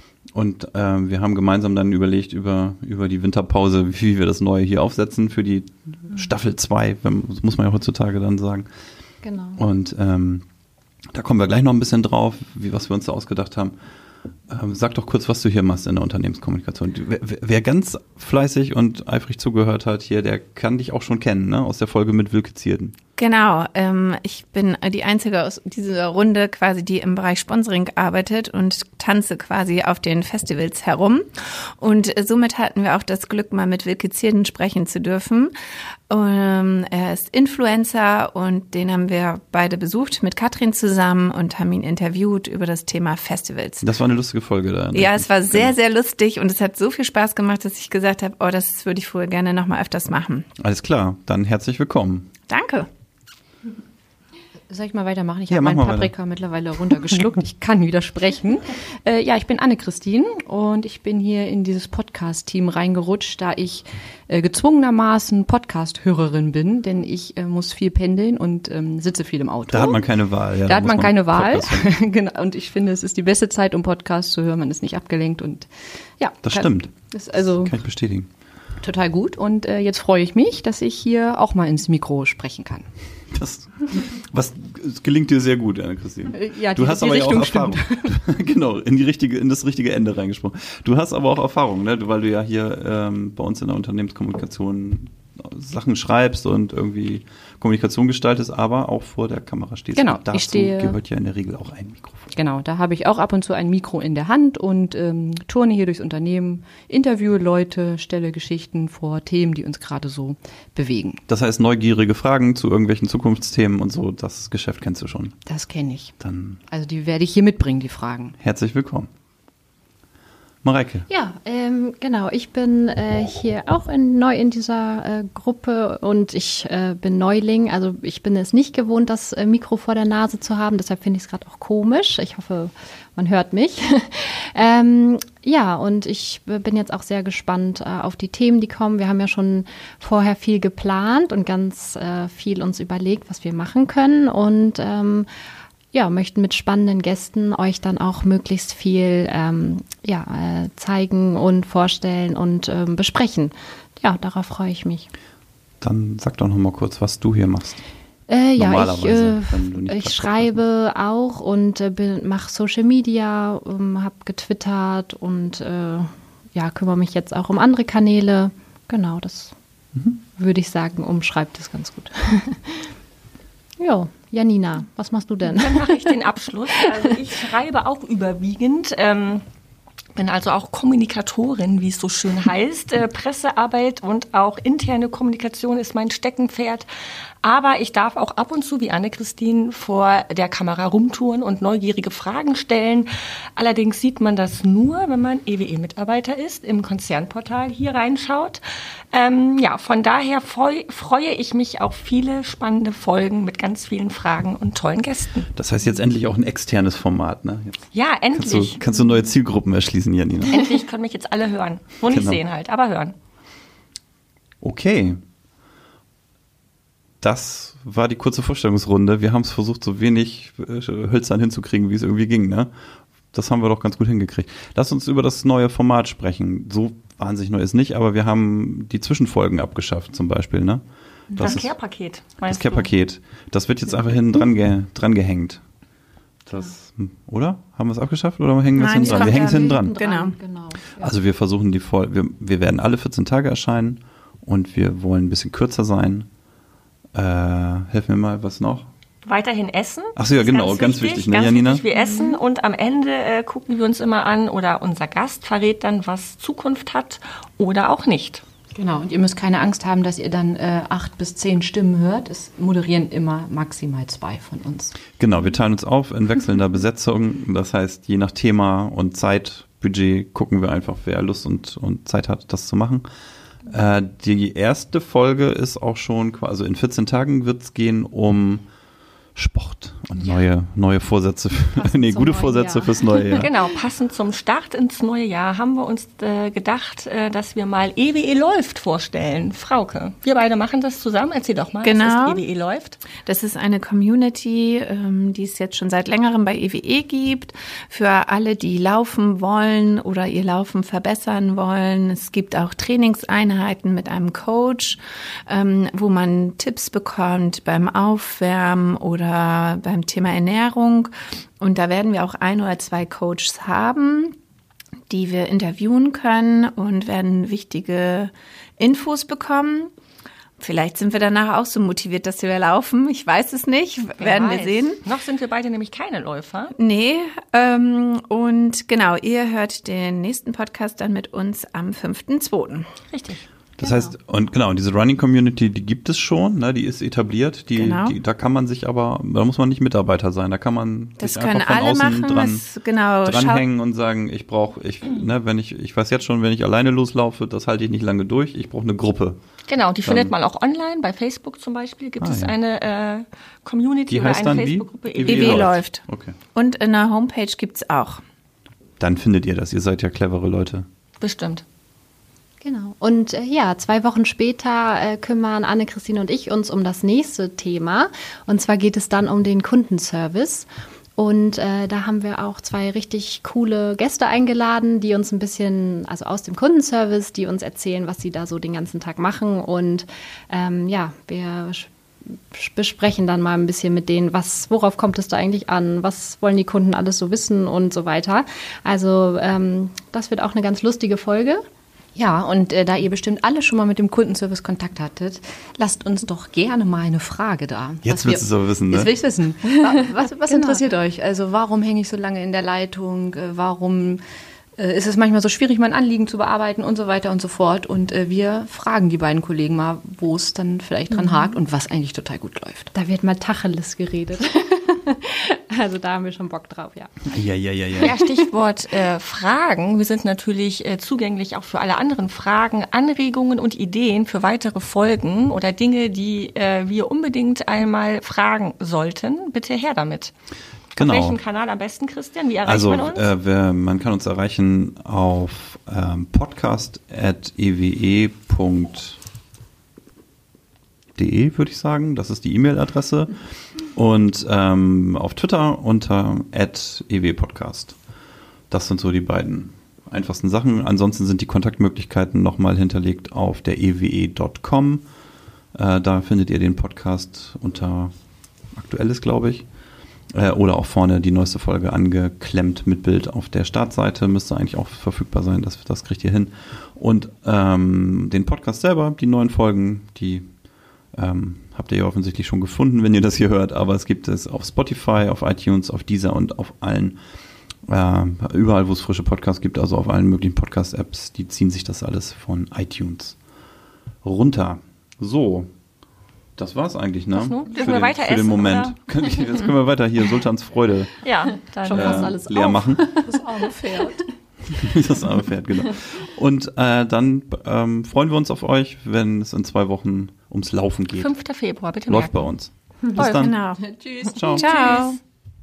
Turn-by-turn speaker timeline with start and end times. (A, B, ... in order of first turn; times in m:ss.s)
0:00.3-0:08.7 A
0:09.2-0:09.6 B
0:09.6-0:10.4 A
0:11.1-0:13.8 A
0:14.5-0:23.0 A
0:23.2-0:35.5 C
0:36.1-0:43.8 C
0:43.8-0:45.8 A
0:44.9-0:50.5 C
0:50.6-0:52.3 A
0:52.5-0:52.9 C
0:54.7-1:10.1 D
0:55.5-0:56.1 A
1:09.7-1:11.9 A
1:10.6-1:17.7 D
1:16.4-1:18.3 A
1:18.8-1:22.9 D
1:23.3-1:42.3 A
1:26.3-1:28.2 D
1:40.0-1:41.0 D
1:42.3-1:51.2 D
1:51.3-1:55.3 A
1:55.5-1:56.1 D
1:56.2-1:56.6 A
1:56.7-1:58.3 D
1:58.4-1:59.1 A
2:00.6-2:01.1 A
2:01.1-2:25.3 B
2:25.9-2:35.1 B
2:35.8-2:37.8 A
2:38.3-2:49.6 B
2:38.6-2:40.6 A
2:50.3-2:52.9 B
2:53.8-2:56.2 B
2:55.5-2:59.4 E
2:56.8-2:57.1 B
3:00.2-3:06.9 E
3:07.4-3:25.5 E
3:25.5-3:27.8 A
3:27.9-3:28.8 E
3:28.3-3:30.6 A
3:30.5-3:33.2 E
3:32.1-3:32.4 A
3:34.6-3:35.2 A
3:37.2-3:42.7 A
3:43.3-3:51.7 A
3:51.4-3:52.9 E
3:52.4-3:55.6 A
3:56.5-3:59.9 A
3:58.8-4:00.4 C
3:59.0-4:01.1 B
4:00.9-4:06.3 A
4:07.1-4:08.9 A
4:09.2-4:18.4 E
4:10.2-4:11.8 A
4:18.8-4:25.0 D
4:25.2-4:33.1 A
4:33.6-4:38.6 A
4:39.4-4:43.5 A
4:41.8-4:43.5 B
4:43.4-4:53.0 E
4:51.8-4:52.4 C
4:53.2-5:14.4 C
5:15.1-5:19.9 C
5:20.6-5:25.0 C
5:24.2-5:26.8 E
5:26.8-5:32.9 C
5:33.1-5:33.4 E
5:33.8-5:42.6 A
5:33.8-5:34.2 B
5:37.8-5:38.2 C
5:41.2-5:43.6 C
5:43.2-5:49.4 A
5:49.7-5:55.7 E
5:50.0-5:50.3 A
5:52.2-5:52.5 A
5:54.1-5:56.4 A
5:55.2-5:58.2 C
5:59.0-6:00.9 A
6:01.2-6:01.6 E
6:02.6-6:31.6 B
6:32.1-6:44.2 D
6:38.0-6:39.1 A
6:39.7-6:40.8 B
6:44.8-6:52.9 D
6:51.1-6:51.6 B
6:52.9-6:57.3 B
6:57.2-6:58.1 A
6:58.0-7:10.3 E
7:11.0-7:11.4 A
7:11.0-7:13.3 E
7:12.6-7:19.2 A
7:21.2-7:23.3 A
7:23.9-7:28.0 A
7:28.7-7:35.0 A
7:35.8-7:38.1 A
7:38.7-7:39.6 A
7:40.3-7:50.5 A
7:51.1-7:57.2 A
7:57.9-8:03.4 A
8:04.2-8:05.7 A
8:06.6-8:11.2 A
8:07.3-8:09.7 E
8:11.2-8:12.4 E
8:11.8-8:13.0 A
8:11.9-8:14.2 B
8:13.5-8:14.0 D
8:13.6-8:13.9 E
8:14.7-8:21.3 A
8:21.1-8:22.5 E
8:22.1-8:23.5 A
8:23.1-8:25.2 E
8:23.4-8:23.8 C
8:24.2-8:24.7 A
8:24.5-8:25.2 C